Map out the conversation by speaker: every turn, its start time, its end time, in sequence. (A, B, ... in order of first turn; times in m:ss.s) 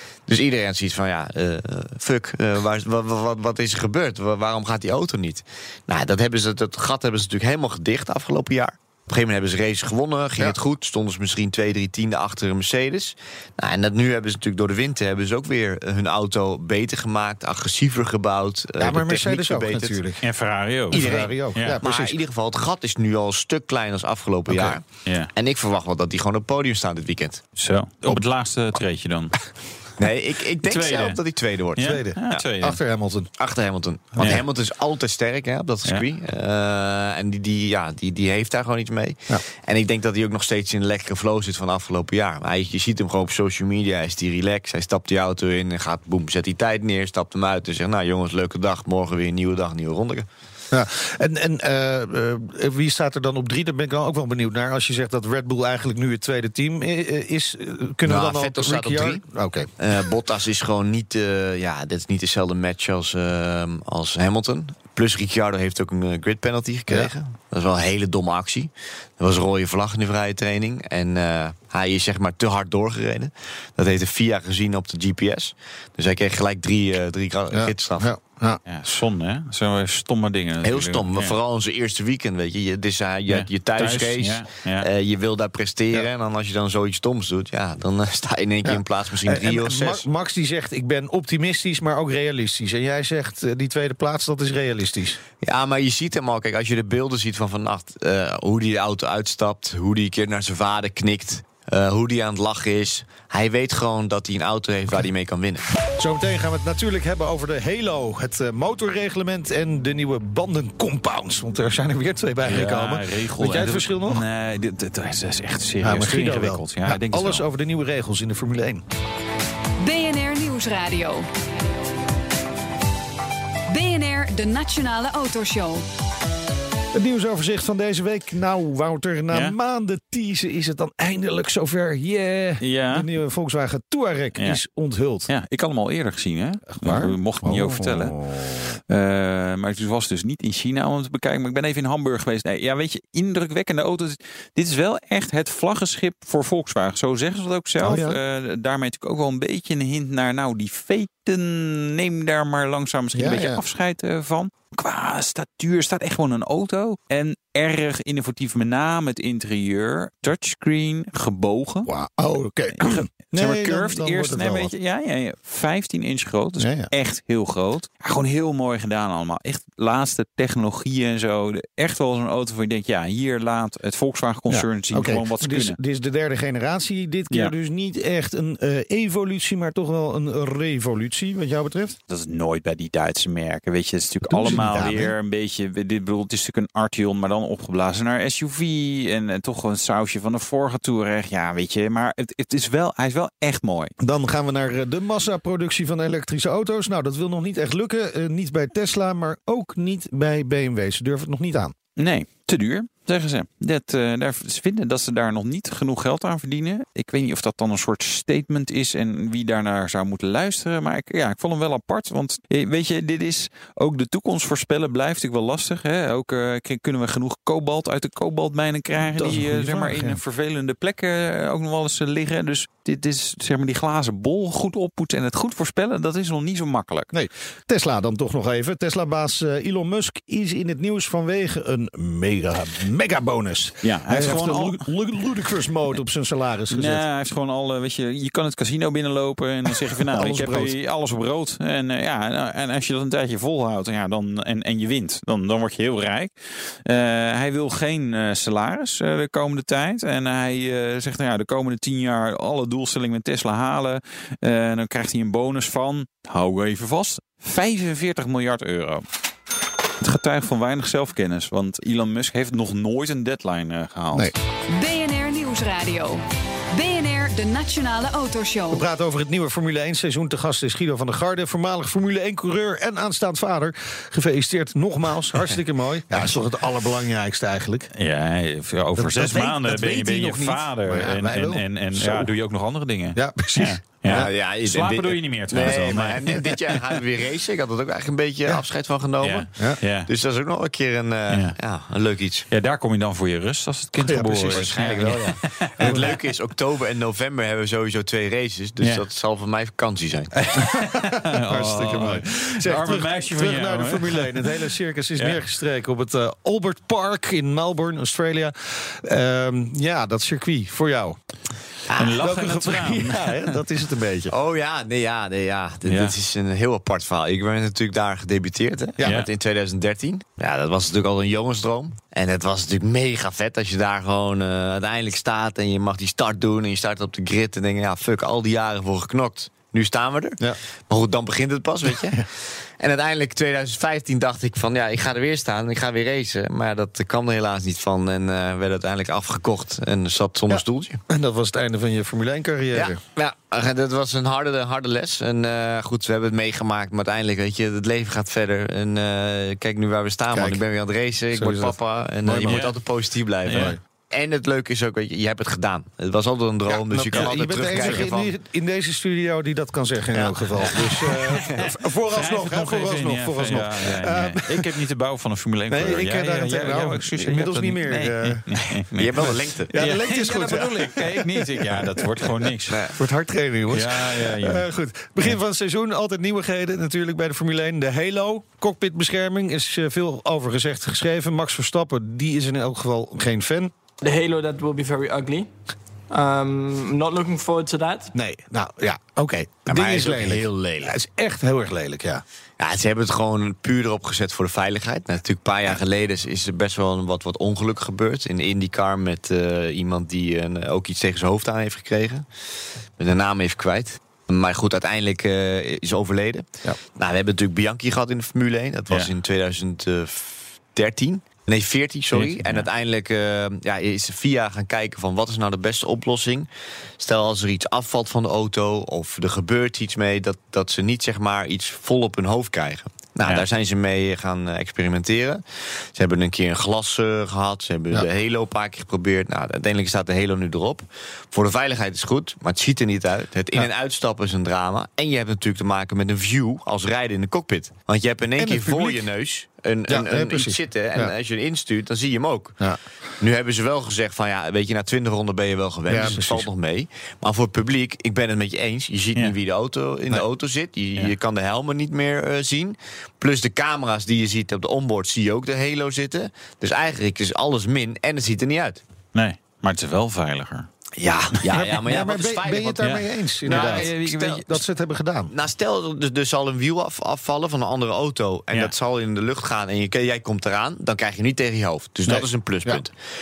0:00.3-0:20.0 A
0:18.8-0:20.2 B
0:20.2-0:21.8 C
0:20.9-0:22.2 B
0:20.9-0:27.4 A
0:24.5-0:24.8 B
0:27.6-0:29.3 C
0:30.0-0:32.4 A
0:30.6-0:31.2 C
0:31.8-0:32.8 C
0:31.8-0:33.3 B
0:33.4-0:50.3 A
0:34.1-0:34.4 B
0:50.7-0:59.7 B
0:58.0-0:59.2 A
0:59.8-1:18.1 A
1:17.5-1:18.6 B
1:18.7-1:21.4 C
1:20.6-1:30.0 A
1:23.3-1:24.9 C
1:28.6-1:35.2 B
1:35.4-1:45.6 A
1:46.0-1:54.2 B
1:52.4-1:57.4 C
1:55.8-1:58.8 B
1:59.8-2:01.3 D
2:03.7-2:05.8 D
2:06.9-2:15.3 B
2:09.3-2:09.6 C
2:12.6-2:13.1 C
2:14.4-2:14.6 C
2:15.3-2:18.2 C
2:16.7-2:18.8 B
2:18.9-2:41.9 C
2:27.8-2:28.2 B
2:33.1-2:33.6 B
2:41.9-2:44.7 B
2:42.7-2:55.8 C
2:46.6-2:46.9 B
2:54.5-3:02.0 B
3:02.1-3:13.9 C
3:04.3-3:05.1 B
3:14.0-3:21.7 B
3:22.0-3:47.1 C
3:39.0-3:40.2 B
3:47.1-3:57.0 B
3:53.8-3:54.9 C
3:56.7-4:19.0 C
4:00.1-4:00.8 B
4:20.0-4:24.3 C
4:24.7-4:28.9 D
4:28.7-4:37.9 B
4:37.9-4:47.0 C
4:39.0-4:42.3 B
4:43.2-4:44.3 B
4:44.1-4:52.5 A
4:49.2-4:50.1 C
4:51.3-4:51.6 C
4:52.5-4:56.2 C
4:54.0-4:54.9 B
4:54.5-5:00.4 A
4:55.8-4:56.1 B
5:00.5-5:05.4 C
5:00.6-5:11.2 B
5:11.9-5:12.2 A
5:11.9-5:13.6 C
5:12.2-5:14.3 B
5:14.3-5:41.0 A
5:15.8-5:16.2 C
5:40.5-5:43.0 B
5:42.7-5:58.3 A
5:50.3-5:50.6 B
5:51.3-5:52.6 B
5:52.4-5:52.8 C
5:53.4-5:53.8 C
5:53.5-5:53.8 B
5:56.7-6:04.8 B
5:57.1-5:58.1 C
6:00.1-6:01.6 A
6:00.6-6:12.8 C
6:05.7-6:23.7 B
6:09.0-6:09.7 A
6:12.7-6:13.0 A
6:13.7-6:14.7 C
6:24.0-6:25.5 E
6:26.1-6:28.1 E
6:28.1-6:32.2 B
6:29.7-6:30.9 A
6:32.6-6:42.3 A
6:43.0-6:56.5 A
6:52.1-6:52.7 C
6:57.0-7:05.4 A
7:05.9-7:22.6 A
7:18.4-7:19.1 B
7:19.9-7:21.1 B
7:23.2-7:38.8 A
7:25.9-7:26.5 B
7:39.1-7:40.7 C
7:41.0-7:44.4 A
7:41.4-7:41.8 C
7:41.5-7:43.9 B
7:42.8-7:44.6 C
7:44.4-7:45.3 B
7:45.3-7:52.9 A
7:52.1-7:52.8 B